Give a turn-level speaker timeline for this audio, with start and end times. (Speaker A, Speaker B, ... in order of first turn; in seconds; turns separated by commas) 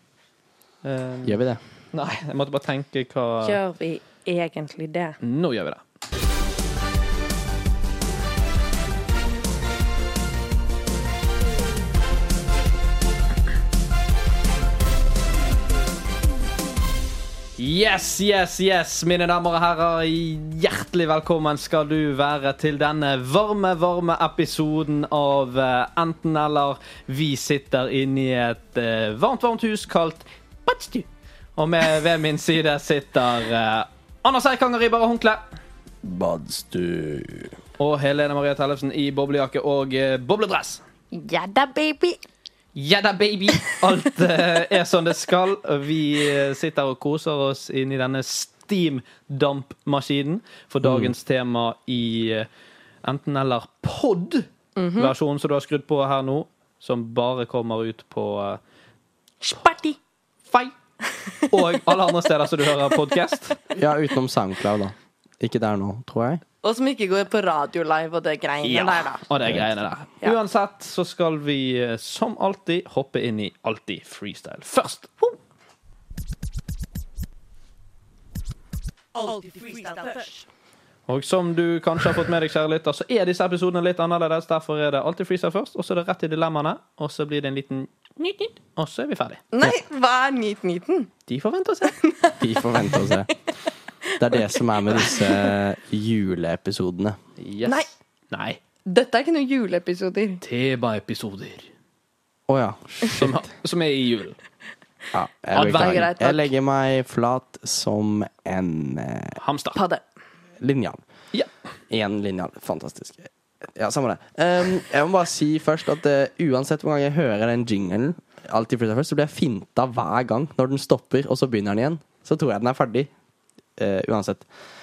Speaker A: 0.8-1.4, Speaker B: 1.2-1.6, Speaker A: 1.9-3.6, Speaker C: 3.4-5.2, Speaker A: 5.2-5.8, Speaker A: 17.6-35.4, Speaker B: 36.0-37.5, Speaker A: 37.8-40.8, Speaker C: 41.1-42.2, Speaker A: 42.7-52.5, Speaker B: 50.8-51.1, Speaker A: 53.0-58.6, Speaker C: 54.8-55.1, Speaker C: 59.4-60.0, Speaker A: 60.5-60.7, Speaker C: 61.4-61.8, Speaker A: 61.5-63.6, Speaker B: 63.7-66.4, Speaker C: 66.6-69.2, Speaker A: 68.6-75.2, Speaker C: 79.1-80.4, Speaker A: 81.1-89.4, Speaker C: 89.5-91.1, Speaker A: 91.3-92.0, Speaker C: 91.9-93.3, Speaker B: 92.4-93.3, Speaker C: 94.1-95.5, Speaker B: 94.2-97.2, Speaker A: 97.4-98.6, Speaker C: 97.6-97.9, Speaker C: 98.8-100.4, Speaker A: 100.4-101.7, Speaker B: 102.5-103.4, Speaker A: 103.1-104.4, Speaker B: 105.1-109.4, Speaker A: 105.5-106.1, Speaker C: 105.5-106.5, Speaker A: 109.4-109.8, Speaker C: 109.7-110.0, Speaker B: 110.6-111.0, Speaker B: 111.9-123.1, Speaker B: 123.8-124.5